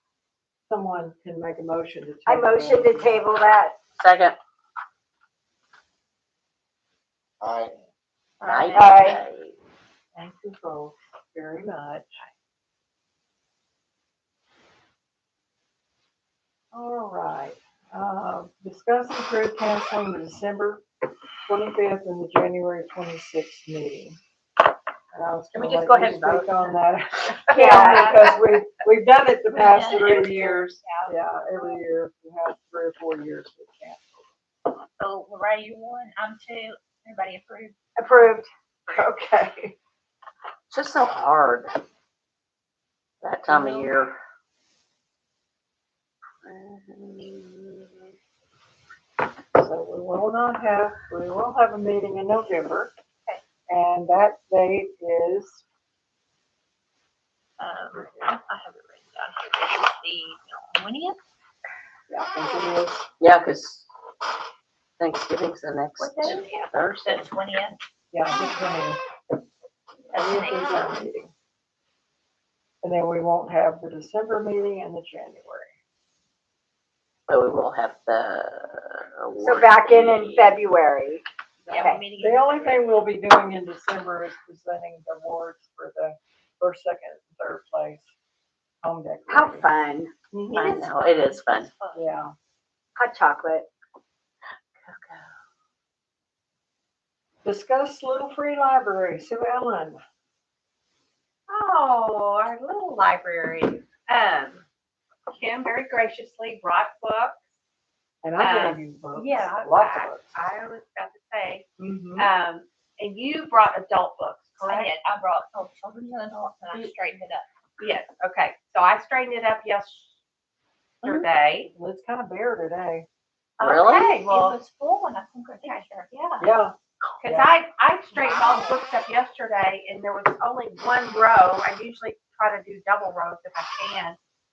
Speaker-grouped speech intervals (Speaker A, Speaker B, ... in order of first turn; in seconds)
Speaker A: 0.7-3.3, 10.1-12.2, 16.7-20.8, 21.5-24.2, 25.1-34.3, 38.9-39.7, 43.5-43.9, 49.5-52.9, 53.7-55.6, 57.9-58.2, 62.1-63.1, 68.1-69.0, 70.1-71.3, 72.8-75.7, 81.7-88.1, 88.8-89.7, 90.3-90.8, 91.9-92.3, 97.4-100.0, 108.2-110.3, 121.7-123.1, 126.4-127.6
Speaker B: 2.2-3.8, 8.7-9.2, 27.5-28.3, 38.0-38.5, 79.4-82.0, 89.3-90.1, 93.0-93.7, 111.8-112.3
Speaker C: 4.0-4.4, 7.4-7.7, 8.4-9.5, 40.7-41.7, 43.2-44.1, 46.4-48.1, 63.2-63.9, 65.0-67.3, 77.3-80.6, 90.5-91.7, 94.8-95.3, 123.6-124.2
Speaker D: 8.4-9.2, 27.6-28.4, 29.5-31.1, 35.0-37.7, 57.6-61.2, 66.0-67.8, 70.1-71.0, 81.7-82.9, 90.5-92.1, 114.6-117.5, 124.0-126.1, 128.1-128.7
Speaker E: 25.5-26.6, 101.5-104.6, 105.3-107.4, 108.4-114.9, 117.8-120.1, 121.0-121.7, 123.6-124.6, 125.6-126.5, 127.2-134.2